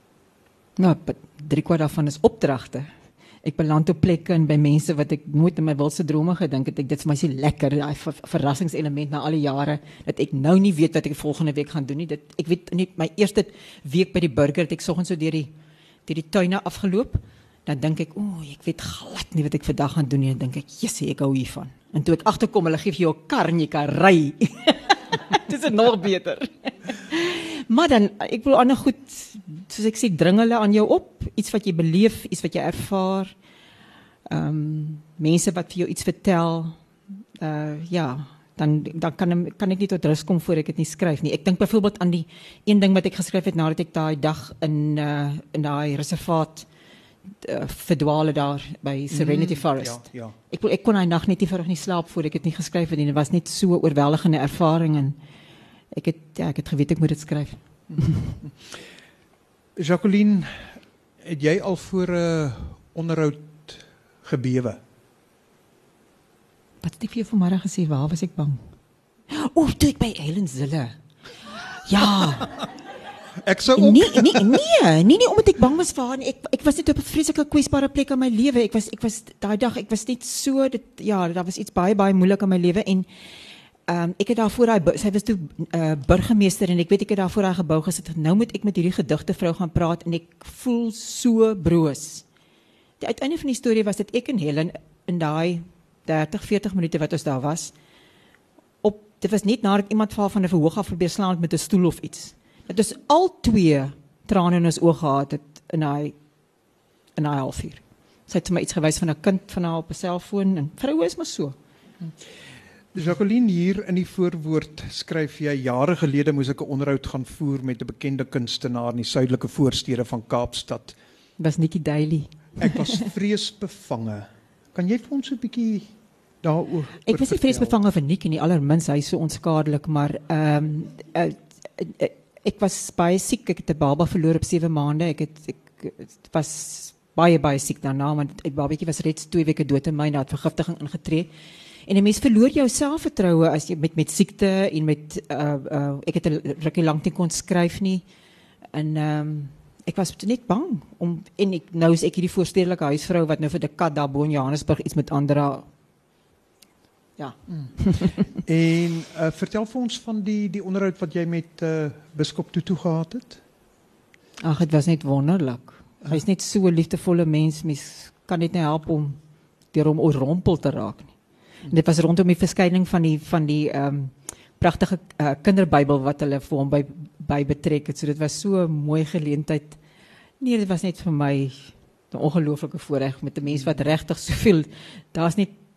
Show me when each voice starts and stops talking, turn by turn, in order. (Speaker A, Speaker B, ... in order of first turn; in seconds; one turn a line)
Speaker A: 0.8-2.9
Speaker A: 3.4-15.5
Speaker A: 16.1-33.3
Speaker A: 34.3-36.8
Speaker A: 37.4-46.7
Speaker A: 47.4-55.2
Speaker B: 49.1-50.3
Speaker A: 55.9-58.4
Speaker B: 59.8-64.8
Speaker A: 66.8-68.6
Speaker A: 69.3-71.0
Speaker A: 71.5-72.6
Speaker B: 73.4-74.6
Speaker A: 73.7-83.1
Speaker A: 83.9-92.2
Speaker A: 93.0-97.7
Speaker A: 98.8-106.2
Speaker A: 107.2-111.5
Speaker B: 112.9-121.0
Speaker A: 121.4-123.0
Speaker B: 122.6-125.9
Speaker B: 126.4-127.7
Speaker A: 127.1-141.3
Speaker A: 141.9-148.0
Speaker A: 148.7-155.7
Speaker A: 157.2-158.3
Speaker B: 158.3-163.4
Speaker A: 164.4-169.2
Speaker A: 169.7-171.1
Speaker A: 171.7-179.8
Speaker A: 180.4-185.6